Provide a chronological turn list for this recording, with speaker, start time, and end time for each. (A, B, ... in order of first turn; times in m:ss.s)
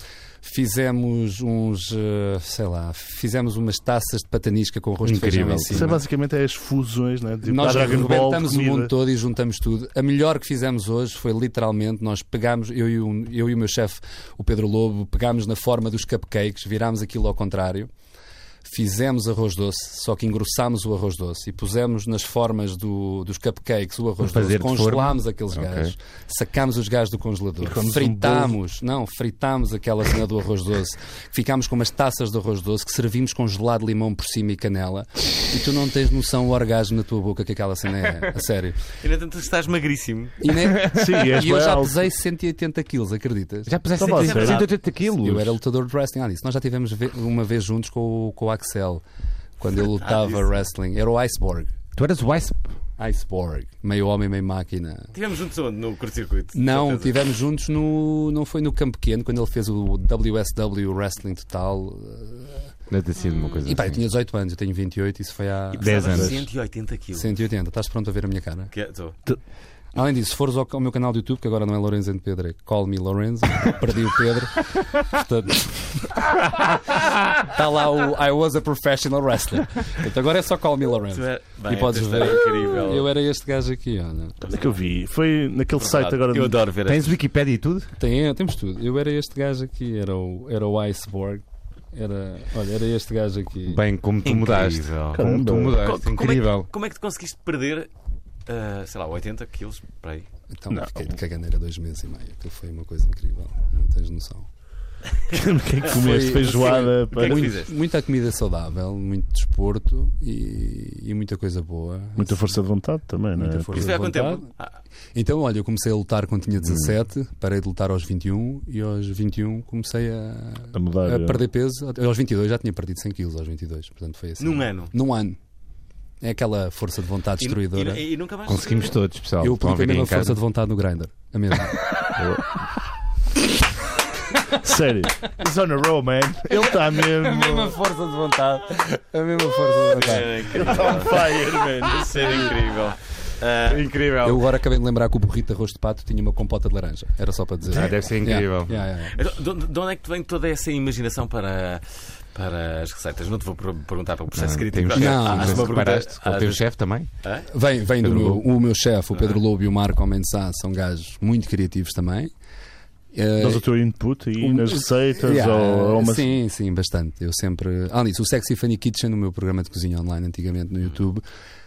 0:00.4-0:06.0 A
0:05.0-0:06.0 B
0:05.7-0:08.9 C
0:07.4-0:17.9 A
0:18.6-0:38.8 A
0:24.2-0:25.9 B
0:27.6-0:28.6 C
0:39.0-0:40.4 D
0:40.4-0:43.8 A
0:40.9-0:42.0 C
0:43.7-0:45.5 B
0:44.0-0:44.6 C
0:44.0-0:44.7 D
0:45.1-0:49.0 A
0:49.6-0:51.7 A
0:50.0-0:50.5 D
0:52.0-0:52.6 B
0:53.0-0:55.1 A
0:55.1-0:57.1 D
0:56.5-1:02.7 A
1:02.9-1:04.0 B
1:03.6-1:06.4 A
1:05.7-1:07.3 D
1:05.8-1:06.4 B
1:07.1-1:08.7 A
1:08.7-1:09.2 D
1:09.9-1:16.2 A
1:17.4-1:24.4 A
1:21.1-1:23.1 D
1:24.4-1:26.6 C
1:25.7-1:27.2 D
1:26.9-1:27.9 B
1:28.0-1:33.8 A
1:33.7-1:36.7 B
1:34.2-1:37.9 D
1:35.1-1:35.8 C
1:38.5-1:40.3 D
1:40.5-1:44.5 A
1:40.7-1:41.1 C
1:45.3-1:47.5 C
1:45.9-1:52.6 A
1:46.3-1:47.7 D
1:52.2-1:53.9 C
1:53.4-1:54.5 A
1:53.7-1:54.8 D
1:55.1-2:05.4 A
2:00.7-2:01.4 C
2:04.4-2:04.9 D
2:06.2-2:08.0 A
2:07.4-2:08.9 D
2:08.5-2:10.4 B
2:09.4-2:11.9 A
2:12.2-2:12.5 C
2:14.6-2:17.8 C
2:16.5-2:20.9 A
2:19.9-2:21.4 D
2:20.5-2:22.5 C
2:21.9-2:23.9 D
2:23.7-2:24.4 B
2:24.2-2:29.2 A
2:27.7-2:28.8 B
2:29.1-2:36.6 D
2:34.3-2:37.1 B
2:34.9-2:35.7 A
2:37.2-2:37.5 D
2:37.5-2:42.3 A
2:38.0-2:38.4 B
2:43.1-2:43.6 A
2:43.4-2:46.3 C
2:44.4-2:51.2 A